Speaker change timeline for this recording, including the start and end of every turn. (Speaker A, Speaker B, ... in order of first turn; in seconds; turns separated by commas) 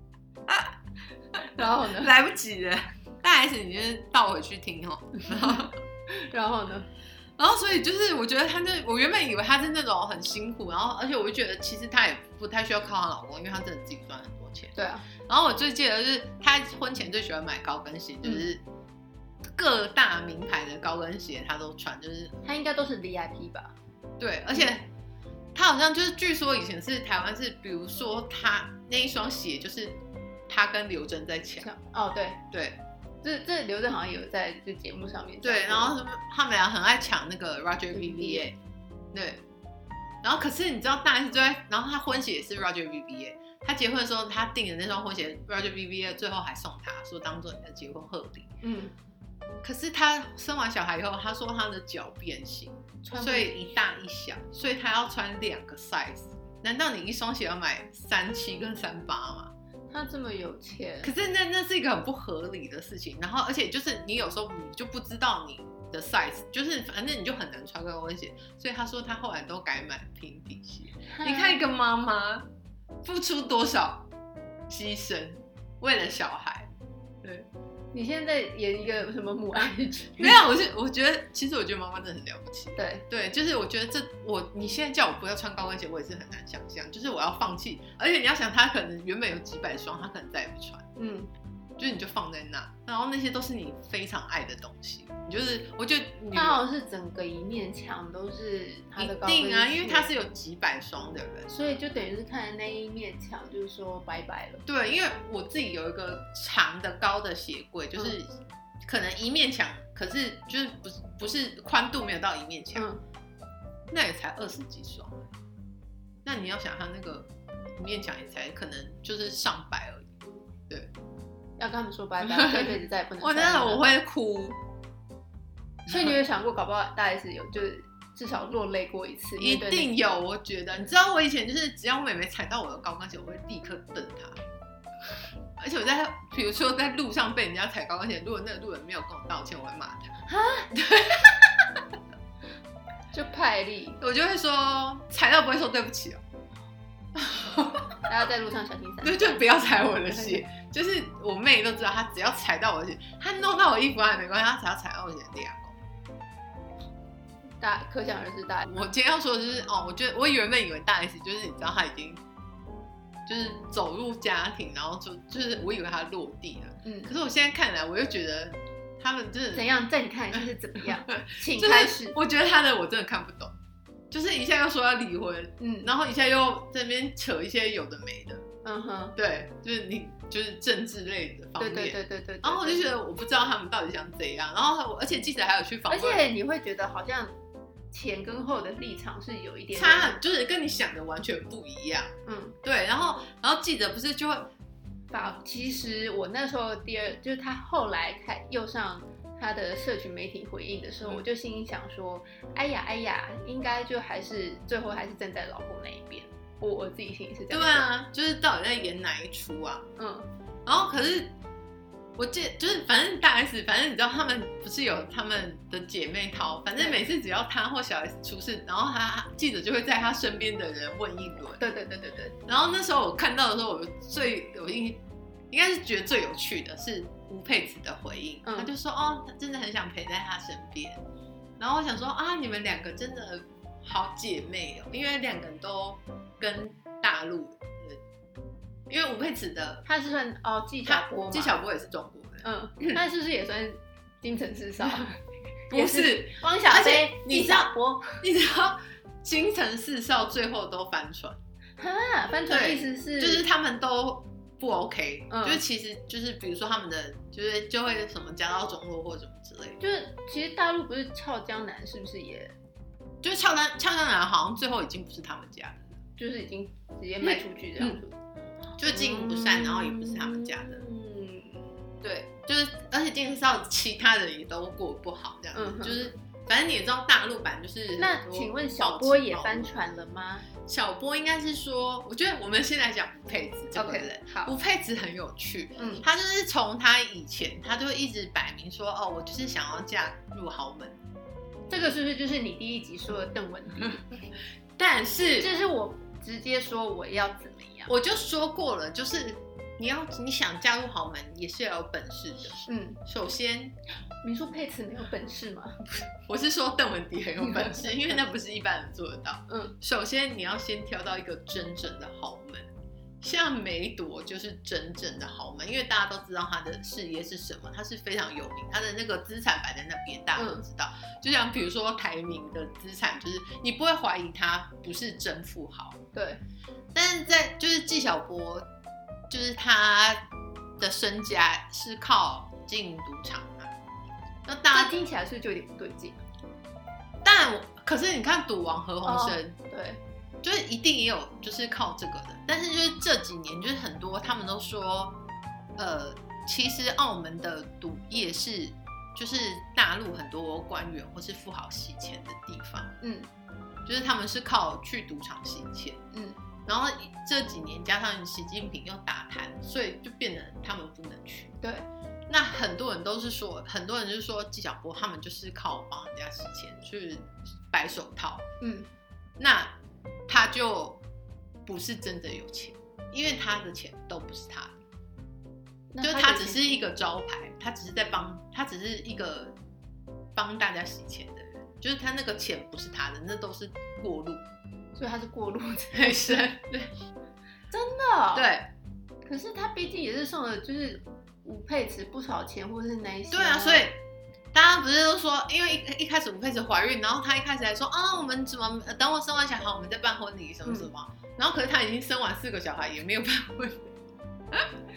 Speaker A: 0.5-0.7, Speaker B: 1.5-2.1, Speaker A: 1.6-5.7, Speaker B: 5.2-6.9, Speaker A: 7.4-14.7, Speaker B: 14.8-15.0, Speaker A: 15.3-18.6, Speaker A: 19.5-22.4, Speaker B: 22.4-23.7, Speaker A: 24.2-24.9, Speaker A: 25.5-31.7, Speaker B: 31.6-32.4, Speaker A: 32.5-32.8, Speaker B: 33.2-36.0, Speaker A: 35.4-38.6, Speaker B: 37.9-38.5, Speaker A: 39.1-39.4, Speaker A: 40.2-48.5, Speaker B: 48.6-48.9, Speaker A: 49.6-59.5, Speaker B: 53.0-53.6, Speaker B: 59.9-61.1, Speaker A: 61.0-72.5, Speaker B: 71.0-71.6, Speaker A: 73.0-74.1, Speaker A: 74.7-76.7, Speaker A: 77.2-77.5, Speaker B: 77.9-80.4, Speaker A: 80.2-90.9, Speaker B: 82.8-83.0, Speaker B: 91.0-91.3, Speaker A: 91.8-96.6, Speaker B: 96.3-100.1, Speaker A: 99.0-101.8, Speaker B: 101.5-104.6, Speaker A: 104.7-108.3, Speaker A: 108.8-112.9, Speaker B: 112.7-113.0, Speaker A: 113.9-115.3, Speaker A: 116.2-120.1, Speaker B: 121.6-123.8, Speaker A: 122.2-124.6, Speaker B: 125.9-129.9, Speaker A: 129.4-134.4, Speaker A: 135.6-140.1, Speaker B: 140.3-140.7, Speaker A: 140.7-141.5, Speaker B: 143.1-144.0, Speaker A: 144.0-146.2, Speaker A: 147.1-148.0, Speaker B: 148.1-149.4, Speaker A: 149.0-155.8, Speaker B: 150.1-150.4, Speaker B: 157.6-158.7, Speaker A: 158.7-162.2, Speaker A: 163.2-169.7, Speaker B: 166.8-167.1, Speaker B: 169.5-172.2, Speaker A: 170.3-173.5, Speaker A: 174.1-178.4, Speaker B: 175.6-175.9, Speaker B: 178.6-179.2, Speaker A: 179.2-186.2, Speaker B: 181.6-182.9, Speaker B: 185.9-187.3, Speaker B: 187.9-190.2, Speaker A: 189.7-194.5, Speaker B: 192.2-192.5, Speaker B: 195.1-207.9, Speaker A: 207.5-209.9, Speaker B: 210.0-210.3, Speaker A: 210.7-211.3, Speaker A: 212.2-221.6, Speaker B: 216.8-217.0, Speaker B: 221.6-222.3, Speaker A: 222.4-225.0, Speaker A: 225.5-231.0, Speaker B: 228.4-228.7, Speaker A: 231.6-238.0, Speaker A: 238.9-239.8, Speaker B: 239.8-241.6, Speaker A: 240.8-243.0, Speaker B: 242.4-245.2, Speaker A: 245.7-251.4, Speaker B: 245.7-248.2, Speaker B: 251.8-253.4, Speaker A: 252.5-259.8, Speaker B: 255.3-255.6, Speaker B: 259.8-262.5, Speaker A: 263.2-265.9, Speaker B: 266.2-268.1, Speaker A: 267.2-268.0, Speaker A: 268.8-270.8, Speaker B: 268.8-271.6, Speaker A: 272.0-279.8, Speaker B: 275.5-276.1, Speaker B: 278.0-280.5, Speaker A: 280.6-291.0, Speaker B: 283.7-284.5, Speaker B: 285.8-286.0, Speaker B: 291.7-294.1, Speaker A: 294.8-295.5, Speaker B: 295.4-297.9, Speaker A: 297.9-303.7, Speaker B: 302.6-303.0, Speaker B: 304.2-305.8, Speaker A: 306.2-312.7, Speaker B: 307.4-307.9, Speaker B: 309.5-309.7, Speaker A: 313.2-326.0, Speaker B: 320.4-320.6, Speaker B: 326.1-326.4, Speaker A: 326.9-328.6, Speaker A: 329.3-330.2, Speaker A: 330.8-333.7, Speaker A: 334.4-334.9, Speaker B: 334.7-336.2, Speaker A: 337.2-339.6, Speaker B: 339.0-340.0, Speaker A: 340.4-345.1, Speaker A: 345.8-352.9, Speaker B: 353.0-353.3, Speaker A: 353.9-356.0, Speaker B: 356.1-356.4, Speaker A: 356.6-361.6, Speaker A: 362.3-368.4, Speaker B: 368.6-368.9, Speaker A: 369.4-369.7, Speaker A: 370.3-371.0, Speaker A: 371.6-374.8, Speaker B: 375.9-376.8, Speaker A: 376.0-379.5, Speaker A: 380.3-384.4, Speaker B: 384.9-386.5, Speaker A: 385.9-386.9, Speaker B: 387.7-388.5, Speaker A: 388.3-388.7, Speaker B: 389.2-393.9, Speaker A: 393.3-394.0, Speaker A: 394.5-403.9